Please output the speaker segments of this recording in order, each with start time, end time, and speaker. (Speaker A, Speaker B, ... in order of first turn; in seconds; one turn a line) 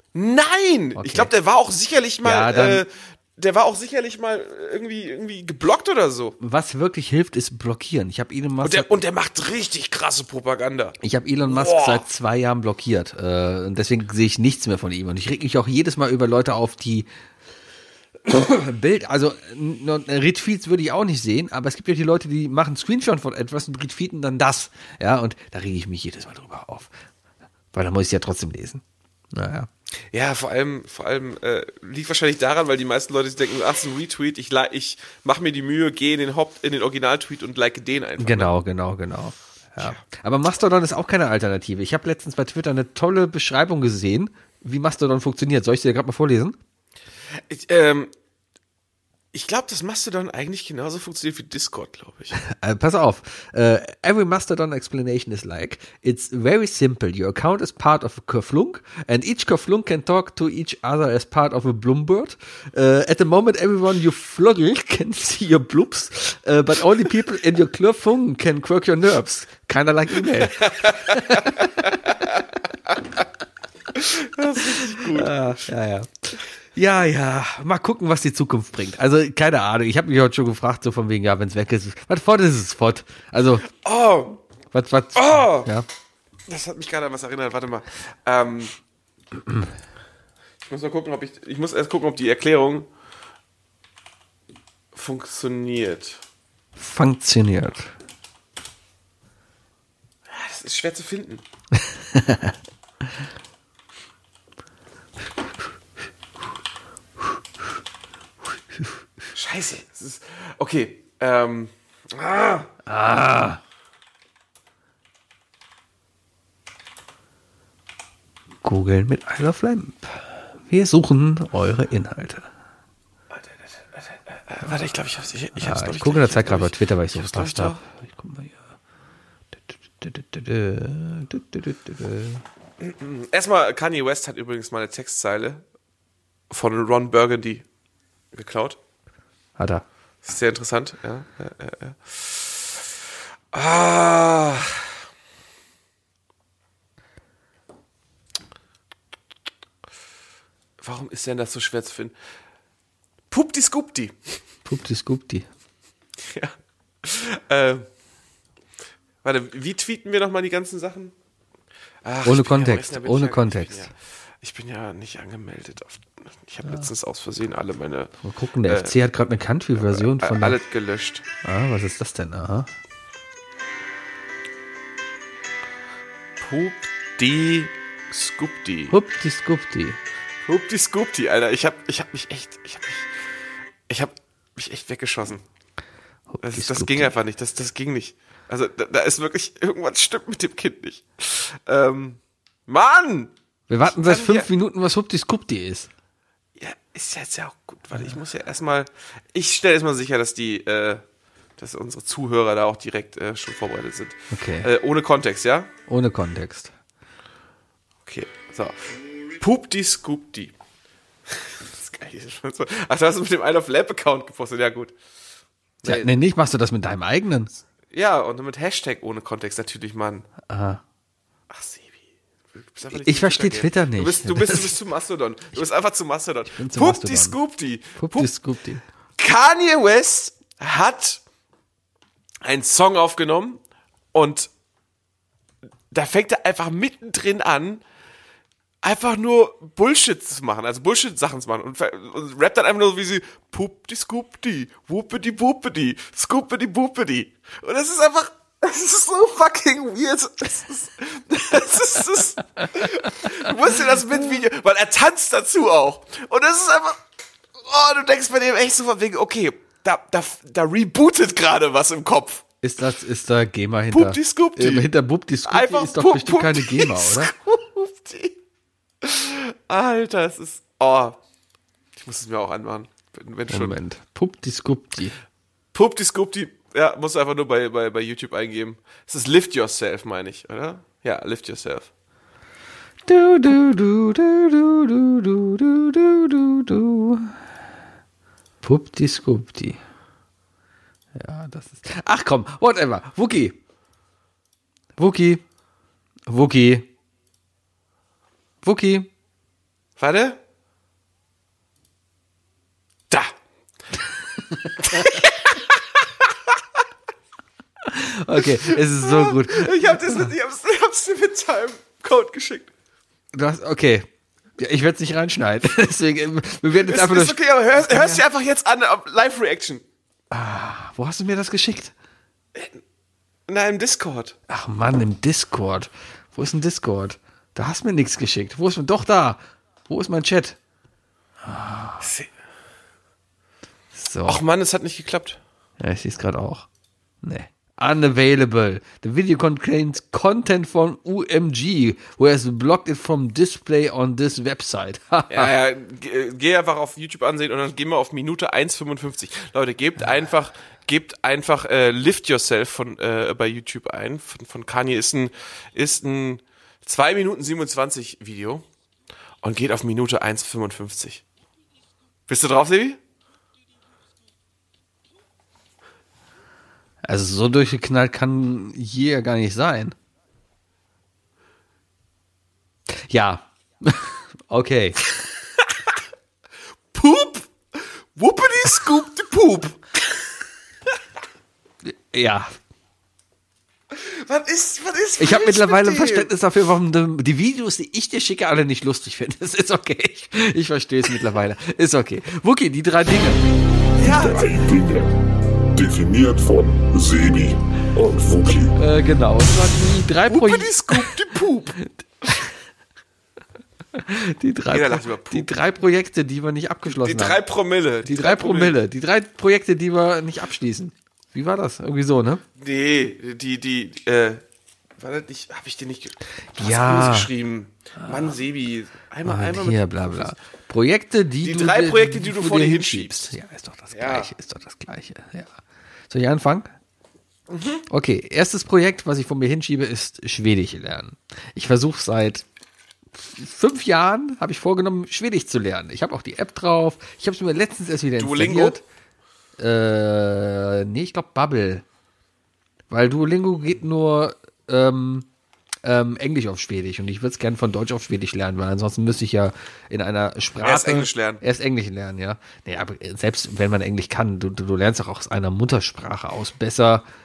Speaker A: 0.1-6.3
Speaker B: 0.9-1.3
Speaker B: 2.2-2.9
Speaker B: 6.4-8.9
Speaker A: 8.6-11.0
Speaker B: 11.0-17.1
Speaker A: 11.5-12.0
Speaker B: 18.3-26.9
Speaker B: 27.7-29.7
Speaker A: 30.1-38.5
Speaker B: 38.2-46.6
Speaker A: 47.3-48.1
Speaker A: 49.3-52.4
Speaker B: 52.3-72.2
Speaker A: 70.3-72.2
Speaker A: 74.0-75.6
Speaker B: 74.5-83.7
Speaker A: 83.6-84.4
Speaker B: 84.7-85.8
Speaker A: 85.1-85.7
Speaker A: 86.5-88.7
Speaker B: 89.4-89.7
Speaker A: 90.6-92.9
Speaker A: 94.9-96.2
Speaker B: 96.8-97.9
Speaker A: 100.3-101.4
Speaker B: 101.8-102.5
Speaker A: 109.3-112.7
Speaker B: 112.8-113.6
Speaker B: 118.6-122.5
Speaker A: 123.9-127.8
Speaker B: 125.6-128.6
Speaker B: 130.0-132.4
Speaker A: 132.8-135.6
Speaker A: 136.5-137.6
Speaker A: 138.3-138.8
Speaker B: 139.6-139.8
Speaker A: 140.2-142.8
Speaker A: 143.5-144.9
Speaker A: 150.8-152.1
Speaker A: 153.3-154.3
Speaker B: 154.7-155.5
Speaker A: 156.2-157.9
Speaker A: 159.2-161.1
Speaker A: 162.0-168.1
Speaker B: 162.2-163.9
Speaker B: 168.2-170.6
Speaker A: 168.7-169.0
Speaker A: 169.8-171.2
Speaker B: 171.4-172.7
Speaker A: 176.4-178.9
Speaker B: 178.9-180.0
Speaker A: 180.4-183.1
Speaker A: 183.9-185.4
Speaker B: 186.3-187.1
Speaker A: 186.4-193.3
Speaker B: 193.7-195.9
Speaker A: 193.9-194.5
Speaker A: 196.6-201.0
Speaker A: 201.6-205.7
Speaker B: 204.3-204.7
Speaker B: 205.9-206.7
Speaker A: 208.0-210.5
Speaker A: 211.3-214.9
Speaker A: 215.8-216.1
Speaker B: 215.8-217.5
Speaker A: 217.9-220.3
Speaker B: 220.5-220.8
Speaker A: 221.5-222.0
Speaker A: 222.5-228.3
Speaker B: 222.9-224.7
Speaker B: 226.5-227.3
Speaker B: 227.9-228.8
Speaker A: 229.2-231.2
Speaker A: 232.4-233.6
Speaker A: 234.1-234.5
Speaker A: 235.9-237.8
Speaker A: 238.8-257.0
Speaker A: 257.6-262.4
Speaker B: 262.6-267.3
Speaker A: 263.9-264.9
Speaker A: 265.4-268.4
Speaker A: 269.0-271.2
Speaker A: 271.9-273.8
Speaker B: 273.5-275.1
Speaker A: 275.7-281.9
Speaker B: 283.1-287.4
Speaker B: 288.6-289.8
Speaker B: 291.1-293.6
Speaker B: 295.0-295.4
Speaker B: 296.3-296.9
Speaker B: 298.6-299.1
Speaker A: 300.0-300.4
Speaker A: 303.1-303.3
Speaker B: 304.5-305.1
Speaker A: 304.8-306.8
Speaker B: 307.9-310.3
Speaker A: 308.4-312.7
Speaker B: 313.3-318.2
Speaker A: 316.9-319.8
Speaker B: 320.3-321.9
Speaker A: 322.5-322.8
Speaker A: 323.5-324.4
Speaker B: 324.5-330.6
Speaker B: 331.4-332.1
Speaker A: 332.0-332.3
Speaker B: 333.9-334.4
Speaker A: 334.2-335.4
Speaker B: 335.8-336.7
Speaker B: 337.2-345.5
Speaker A: 345.3-358.6
Speaker A: 359.4-361.2
Speaker A: 362.3-363.0
Speaker B: 367.0-369.9
Speaker B: 373.1-375.0
Speaker A: 375.6-375.9
Speaker A: 376.9-379.8
Speaker B: 381.9-382.6
Speaker A: 383.9-386.3
Speaker B: 385.2-393.4
Speaker A: 394.0-394.5
Speaker C: 394.1-395.2
Speaker C: 395.7-398.7
Speaker B: 398.8-401.1
Speaker A: 400.3-401.8
Speaker B: 401.8-402.5
Speaker B: 403.9-407.4
Speaker A: 404.7-405.5
Speaker A: 407.0-408.8
Speaker B: 408.0-412.4
Speaker A: 412.6-414.4
Speaker A: 415.0-420.4
Speaker B: 416.5-417.3
Speaker B: 418.0-418.2
Speaker B: 419.2-425.6
Speaker A: 421.4-423.3
Speaker A: 423.9-424.3
Speaker B: 426.1-426.7
Speaker A: 427.5-427.8
Speaker B: 427.9-432.4
Speaker B: 433.1-438.8
Speaker A: 438.2-438.8
Speaker B: 439.6-441.8
Speaker B: 442.9-445.3
Speaker B: 445.8-457.0
Speaker A: 450.6-451.4